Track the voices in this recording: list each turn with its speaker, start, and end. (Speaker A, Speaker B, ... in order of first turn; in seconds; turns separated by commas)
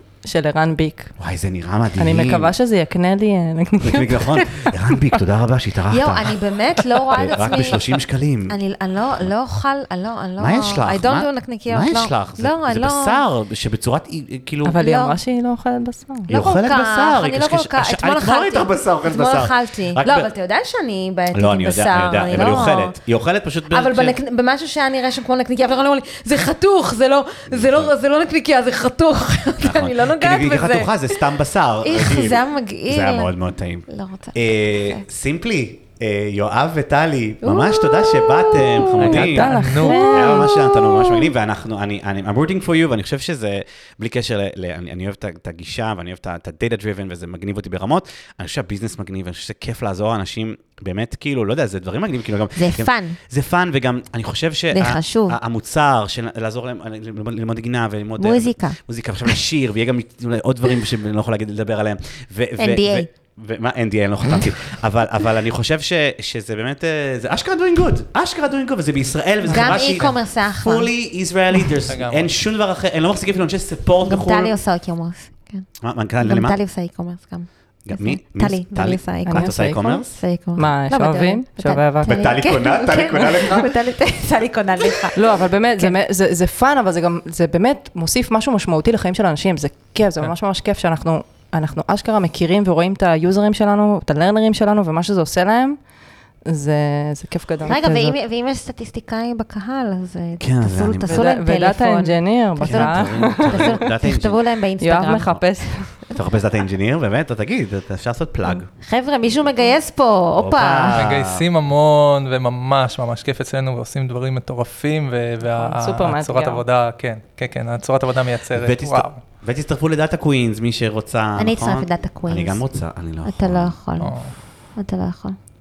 Speaker A: 0.2-1.1, Speaker B: 1.2-2.5, Speaker A: 1.9-5.1, Speaker B: 3.8-6.4, Speaker C: 5.9-7.9, Speaker B: 7.0-8.6, Speaker C: 8.5-13.2, Speaker B: 10.4-14.8, Speaker A: 14.6-16.3, Speaker C: 14.8-15.2, Speaker C: 16.3-22.9, Speaker B: 16.3-20.3, Speaker B: 21.3-24.2, Speaker C: 23.7-31.2, Speaker B: 27.5-27.9, Speaker B: 29.6-74.5, Speaker C: 31.8-33.3, Speaker C: 33.9-35.0, Speaker C: 37.4-39.2, Speaker D: 38.9-40.1, Speaker A: 39.0-40.7, Speaker C: 39.8-41.2, Speaker C: 52.5-53.2, Speaker C: 54.7-55.4, Speaker C: 58.2-58.8, Speaker C: 62.6-63.1, Speaker C: 69.5-70.9, Speaker D: 71.9-72.3, Speaker C: 74.0-86.0, Speaker B: 75.8-76.6, Speaker B: 77.8-80.2, Speaker A: 79.2-80.0, Speaker A: 80.5-82.2, Speaker B: 82.0-83.7, Speaker A: 85.1-95.8, Speaker A: 96.5-98.2, Speaker C: 97.6-105.4, Speaker B: 100.4-101.3, Speaker A: 101.0-103.8, Speaker B: 102.6-104.4, Speaker A: 104.8-106.2, Speaker B: 106.1-108.7, Speaker C: 108.5-111.0, Speaker B: 110.4-111.4, Speaker D: 110.9-119.2, Speaker A: 115.4-116.6, Speaker B: 118.5-123.7, Speaker C: 121.4-122.6, Speaker C: 123.2-124.2, Speaker D: 124.0-124.3, Speaker C: 124.7-125.4